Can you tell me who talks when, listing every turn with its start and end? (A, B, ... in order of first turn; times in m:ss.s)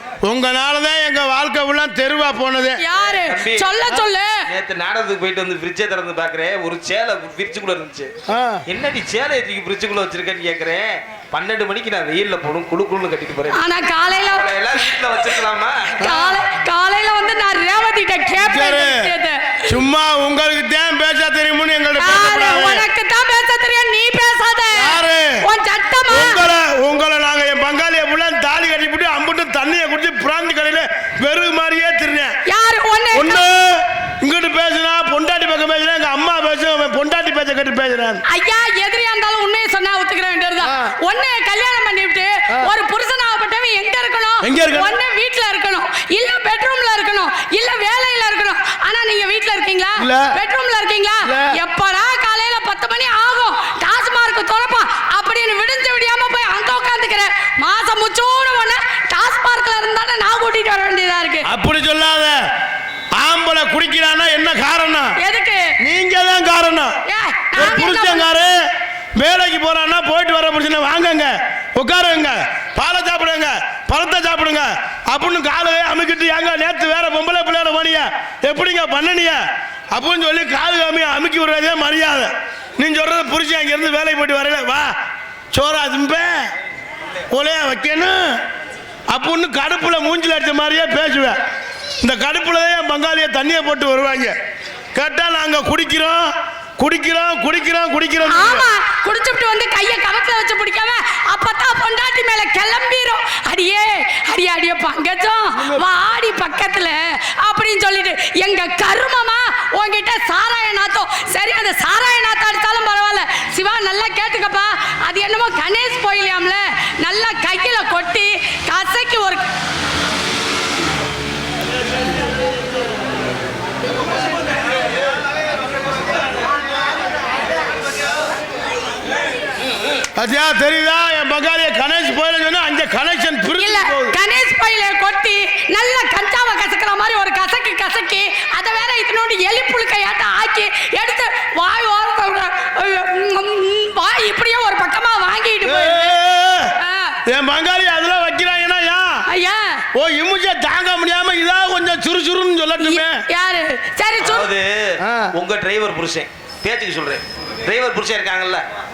0:00.2-0:02.8 A
0:02.8-0:04.4 B
0:03.0-0:03.9 C
0:04.5-0:08.1 C
0:08.3-0:08.6 A
0:08.7-0:13.6 C
0:13.5-0:14.9 B
0:14.2-0:16.0 C
0:16.0-0:19.7 B
0:16.0-0:16.4 A
0:18.4-0:19.1 A
0:19.7-0:22.8 A
0:22.0-0:26.4 B
0:24.8-0:25.4 A
0:26.1-0:32.4 A
0:32.5-0:33.4 B
0:33.1-0:38.2 A
0:38.3-1:01.5 B
0:40.6-0:40.9 A
0:44.4-0:44.9 A
0:50.0-0:50.3 A
0:51.3-0:51.5 A
1:01.5-1:02.4 A
1:03.2-1:05.2 A
1:05.2-1:05.6 B
1:05.8-1:06.9 A
1:07.1-1:08.3 B
1:07.6-1:08.6 A
1:09.2-1:24.9 A
1:25.5-1:26.5 A
1:27.3-1:28.4 A
1:29.1-1:31.4 A
1:32.0-1:34.3 A
1:35.0-1:38.6 A
1:38.3-1:59.4 B
1:45.6-1:45.8 A
2:10.2-2:14.2 A
2:13.6-2:26.2 B
2:25.6-2:26.7 A
2:26.8-2:27.2 B
2:27.3-2:29.2 A
2:29.3-2:29.8 B
2:30.0-2:33.2 A
2:32.8-2:34.5 B
2:34.2-2:38.6 C
2:35.0-2:35.3 A